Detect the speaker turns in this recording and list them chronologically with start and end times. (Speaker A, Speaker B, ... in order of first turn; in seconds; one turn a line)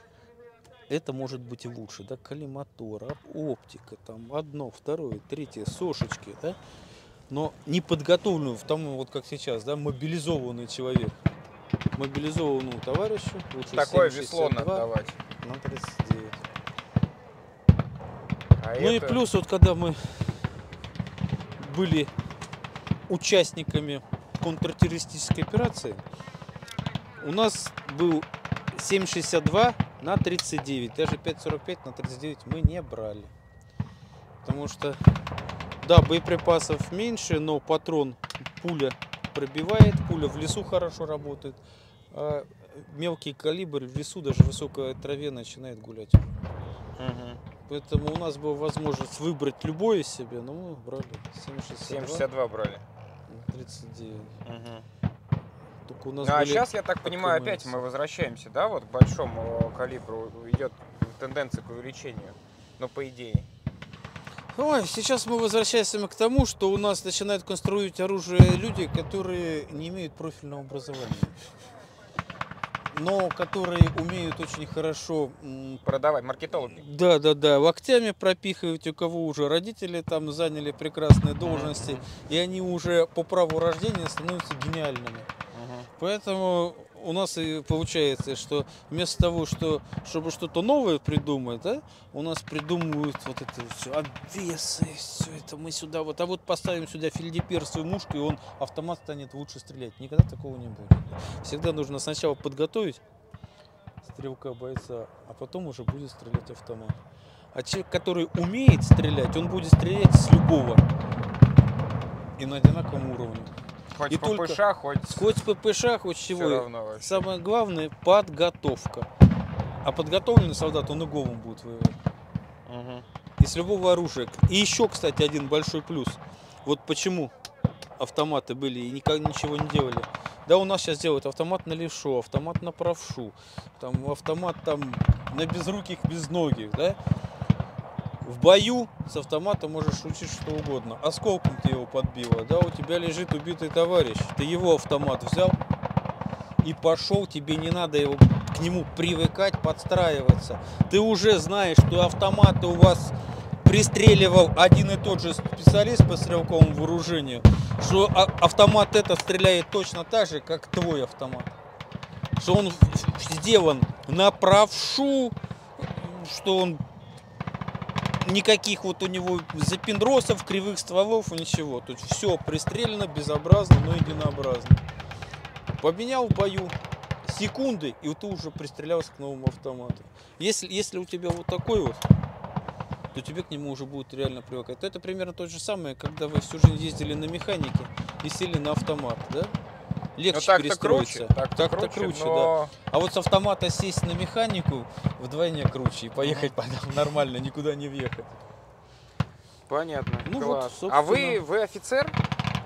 Speaker A: 0.9-6.6
Speaker A: 7.3-11.2
Speaker A: 12.0-14.9
Speaker B: 13.7-15.2
Speaker A: 15.4-16.4
Speaker B: 18.6-19.2
Speaker A: 18.8-20.4
Speaker A: 21.6-22.1
Speaker A: 23.1-26.0
Speaker A: 27.2-33.3
Speaker A: 34.4-35.0
Speaker A: 35.8-41.6
Speaker A: 42.1-46.3
Speaker B: 47.0-47.4
Speaker A: 47.7-52.3
Speaker B: 51.8-52.9
Speaker A: 53.3-54.3
Speaker B: 54.5-54.9
Speaker A: 55.9-57.8
Speaker B: 56.2-63.5
Speaker A: 64.5-71.5
Speaker A: 72.9-75.8
Speaker B: 75.8-76.8
Speaker A: 76.5-85.3
Speaker B: 81.4-82.1
Speaker B: 85.5-85.9
Speaker A: 86.0-103.0
Speaker A: 104.0-107.0
Speaker A: 107.5-110.9
Speaker A: 112.4-113.5
Speaker B: 114.0-115.3
Speaker A: 114.1-119.1
Speaker B: 116.3-117.2
Speaker A: 119.8-122.0
Speaker B: 122.7-123.1
Speaker A: 123.4-127.3
Speaker A: 128.0-137.0
Speaker A: 138.2-145.6
Speaker A: 146.6-161.5
Speaker A: 162.4-166.8
Speaker A: 168.2-174.8
Speaker A: 175.8-182.0
Speaker A: 183.1-189.5
Speaker A: 190.2-198.3
Speaker B: 190.3-192.7
Speaker B: 196.2-196.5
Speaker B: 199.7-202.2
Speaker A: 200.2-201.4